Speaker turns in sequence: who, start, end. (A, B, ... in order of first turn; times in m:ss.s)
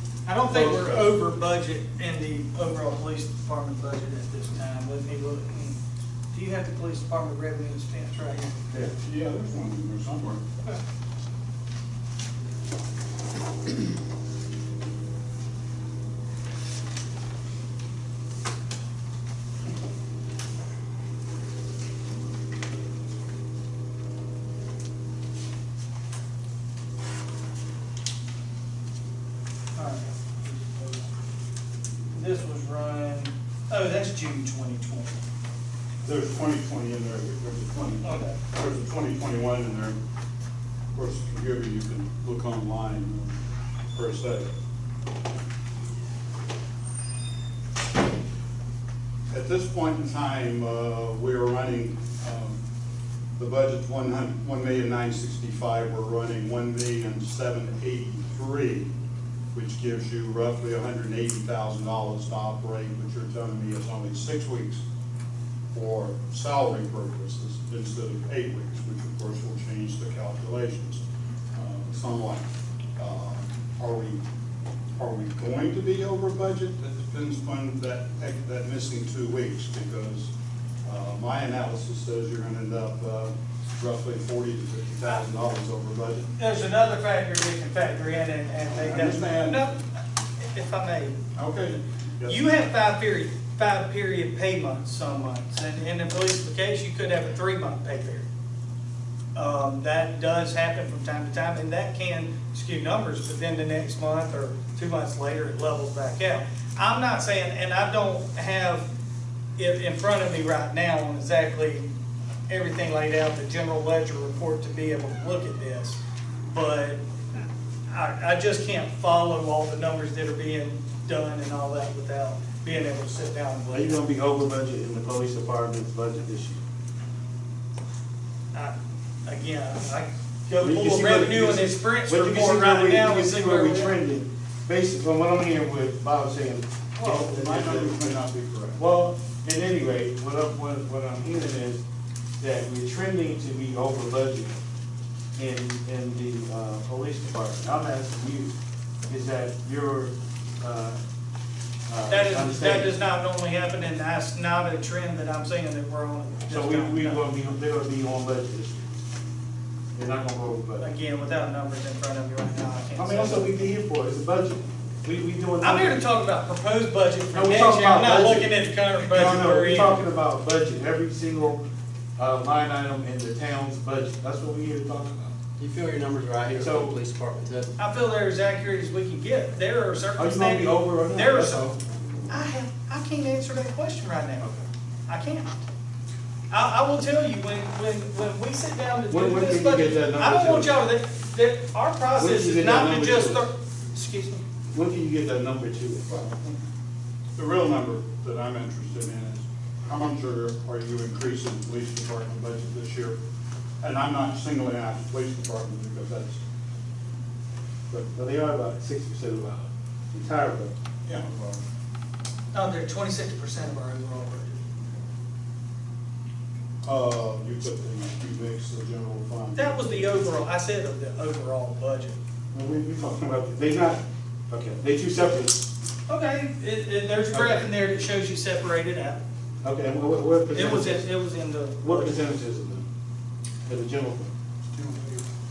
0:00.2-0:05.8 A
0:00.4-0:01.1 B
0:06.3-0:08.6 A
0:08.7-0:10.4 C
0:29.8-0:31.1 A
0:32.1-0:35.2 A
0:36.0-0:40.0 C
0:38.0-0:38.4 A
0:40.9-0:43.4 C
0:43.9-0:44.5 C
0:49.3-0:52.6 C
0:53.4-0:58.9 C
0:59.5-1:04.8 C
1:05.7-1:11.0 C
1:11.5-1:12.5 C
1:13.0-1:14.2 C
1:15.0-1:20.3 C
1:20.8-1:26.3 C
1:26.4-1:29.8 A
1:28.7-1:29.7 C
1:30.4-1:31.2 A
1:31.3-1:32.4 C
1:32.3-1:38.2 A
1:39.3-1:48.9 A
1:49.6-1:51.9 A
1:52.5-1:56.0 A
1:56.5-2:04.0 A
2:03.7-2:06.6 B
2:08.5-2:14.0 A
2:10.6-2:18.2 B
2:17.0-2:18.8 C
2:18.8-2:21.8 B
2:22.4-2:24.6 B
2:25.4-2:28.6 B
2:29.1-2:31.0 B
2:31.9-2:32.9 B
2:32.1-2:37.2 A
2:36.5-2:39.0 B
2:39.9-2:40.8 B
2:40.8-2:43.7 A
2:43.0-2:46.0 B
2:45.6-2:50.0 A
2:47.3-2:48.5 B
2:49.1-2:51.6 B
2:52.2-2:55.4 B
2:55.6-2:57.7 D
2:56.5-2:57.0 B
2:57.8-3:01.7 A
3:00.2-3:01.8 B
3:02.3-3:04.4 A
3:04.4-3:04.7 B
3:05.1-3:05.6 A
3:06.5-3:14.4 A
3:09.1-3:10.7 B
3:12.2-3:13.5 B
3:14.7-3:16.3 B
3:16.1-3:16.6 C
3:17.3-3:23.2 C
3:23.8-3:26.4 C
3:27.9-3:30.7 B
3:31.0-3:31.6 C
3:32.5-3:34.6 A
3:36.8-3:40.3 C
3:39.5-3:42.2 A
3:42.5-3:45.7 B
3:46.1-3:49.2 A
3:47.3-3:47.7 B
3:49.6-3:51.1 B
3:50.5-3:52.2 A
3:51.8-3:52.8 B
3:53.6-3:54.3 B
3:54.7-3:55.3 C